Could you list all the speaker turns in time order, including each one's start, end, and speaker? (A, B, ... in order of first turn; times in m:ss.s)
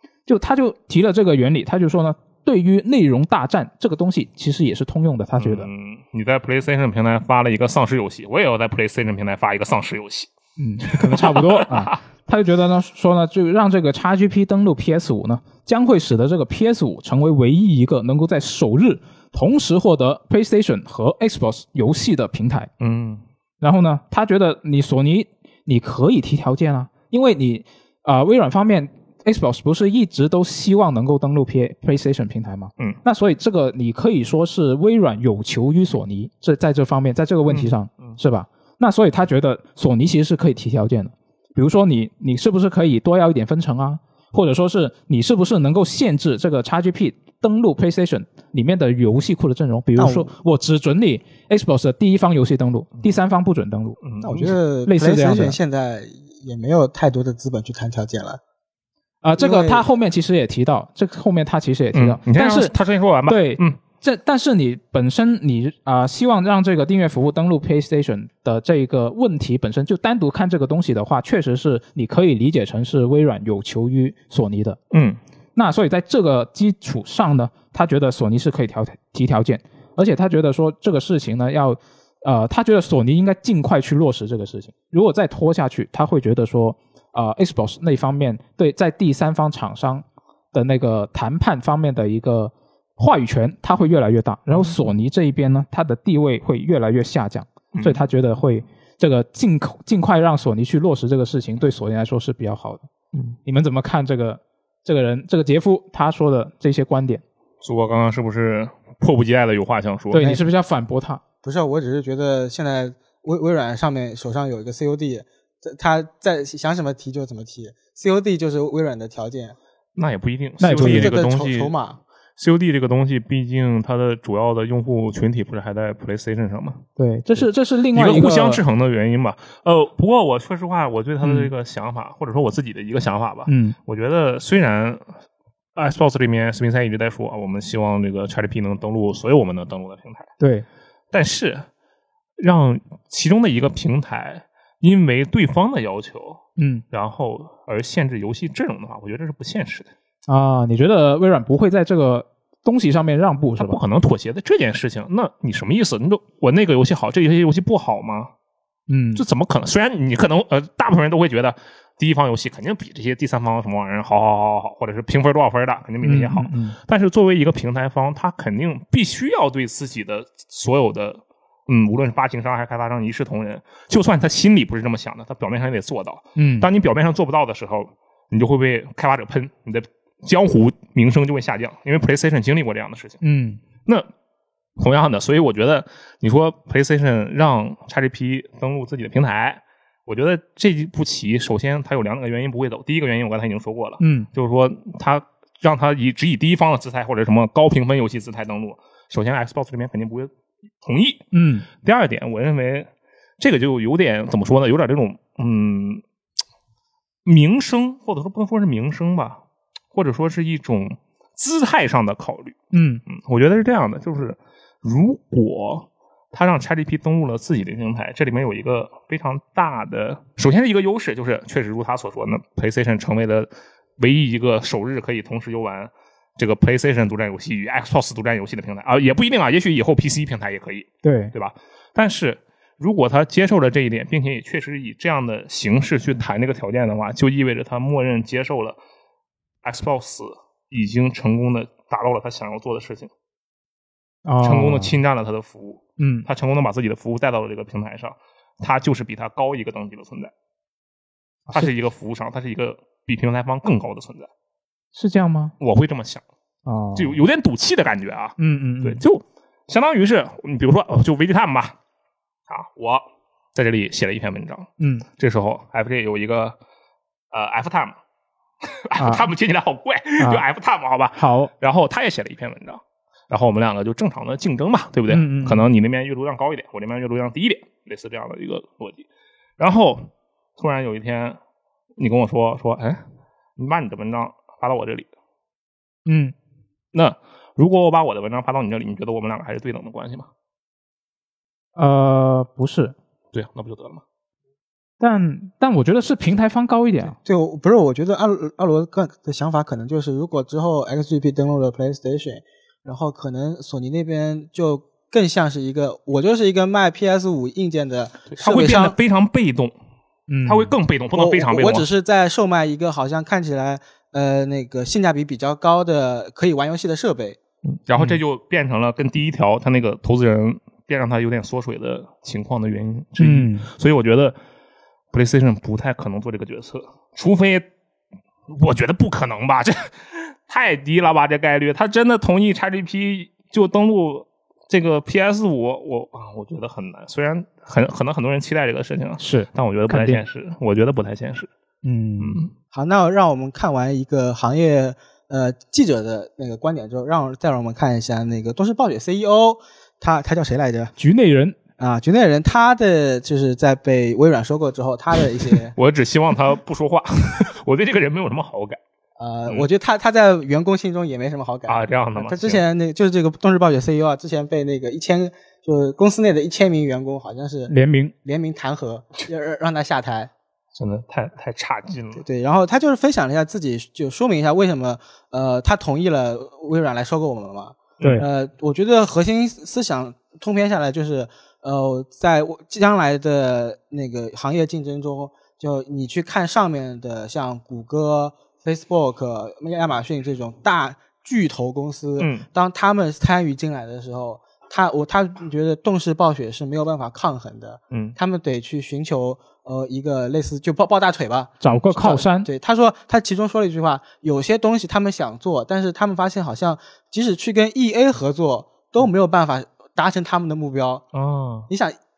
0:00.3-0:05.7 A
0:05.4-0:10.3 B
0:10.6-0:22.7 A
0:10.9-0:12.0 B
0:22.8-0:23.2 B
0:23.6-0:54.0 A
0:37.5-0:38.2 B
0:50.0-0:50.3 C
0:54.0-0:54.5 B
0:54.2-0:58.4 C
0:54.9-0:55.6 A
0:59.2-1:02.7 A
0:59.4-0:59.8 C
1:01.9-1:03.8 B
1:03.3-1:14.8 A
1:14.9-1:15.2 B
1:15.6-1:42.9 A
1:37.7-1:38.0 B
1:43.4-1:47.2 A
1:47.6-1:50.2 B
1:50.1-1:51.2 A
1:50.2-1:50.4 C
1:51.4-1:59.6 C
2:00.0-2:01.7 B
2:00.6-2:01.2 A
2:00.7-2:02.0 C
2:02.4-2:06.8 B
2:07.0-2:08.6 A
2:07.9-2:15.1 B
2:11.2-2:11.5 A
2:13.5-2:13.8 A
2:15.8-2:20.3 B
2:20.4-2:20.7 A
2:21.1-2:21.7 B
2:22.4-2:29.9 B
2:26.6-2:26.8 A
2:30.3-2:33.8 A
2:33.6-2:38.3 B
2:38.9-2:39.2 A
2:39.2-3:03.2 B
2:46.0-2:46.8 A
2:56.4-2:56.7 A
3:03.2-3:03.6 A
3:04.8-3:20.3 B
3:14.0-3:14.3 A
3:20.8-3:26.0 B
3:21.3-3:21.7 A
3:27.3-3:29.4 B
3:29.9-3:58.8 B
3:32.7-3:33.0 A
3:51.0-3:51.3 A
3:59.6-4:03.1 B
4:04.3-4:05.0 A
4:04.4-4:10.3 B
4:06.0-4:06.3 A
4:11.5-4:14.3 B
4:15.0-4:15.6 A
4:15.6-4:16.2 B
4:16.7-4:17.2 A
4:17.0-4:21.8 B
4:18.4-4:19.0 A
4:22.5-4:26.6 B
4:24.8-4:25.0 A
4:27.3-4:28.0 B
4:28.6-4:39.0 B
4:29.0-4:29.3 A
4:30.2-4:30.4 A
4:31.2-4:31.5 A
4:35.1-4:35.7 A
4:39.6-4:41.4 B
4:42.0-4:43.0 B
4:43.6-4:45.1 B
4:46.1-4:46.3 A
4:46.9-4:50.3 B
4:51.8-4:53.0 A
4:53.3-4:54.0 B
4:55.0-4:57.2 A
4:57.2-5:09.0 C
5:08.3-5:09.7 B
5:10.3-5:10.8 A
5:10.5-5:11.9 B
5:11.1-5:17.4 C
5:17.9-5:24.4 B
5:23.2-5:23.7 A
5:25.1-5:27.7 B
5:28.5-5:41.5 B
5:39.2-5:40.2 A
5:41.8-5:42.4 A
5:42.2-5:42.5 B
5:42.7-5:50.9 C
5:51.0-5:51.6 A
5:51.8-5:55.7 C
5:55.8-5:58.8 B
5:59.2-6:07.7 C
6:01.7-6:02.6 B
6:07.7-6:08.1 A
6:08.2-6:10.3 C
6:10.8-6:12.2 B
6:12.2-6:51.0 C
6:18.0-6:18.3 A
6:32.2-6:32.5 B
6:37.9-6:38.2 B
6:41.6-6:42.5 A
6:51.1-6:51.7 B
6:51.7-6:52.0 C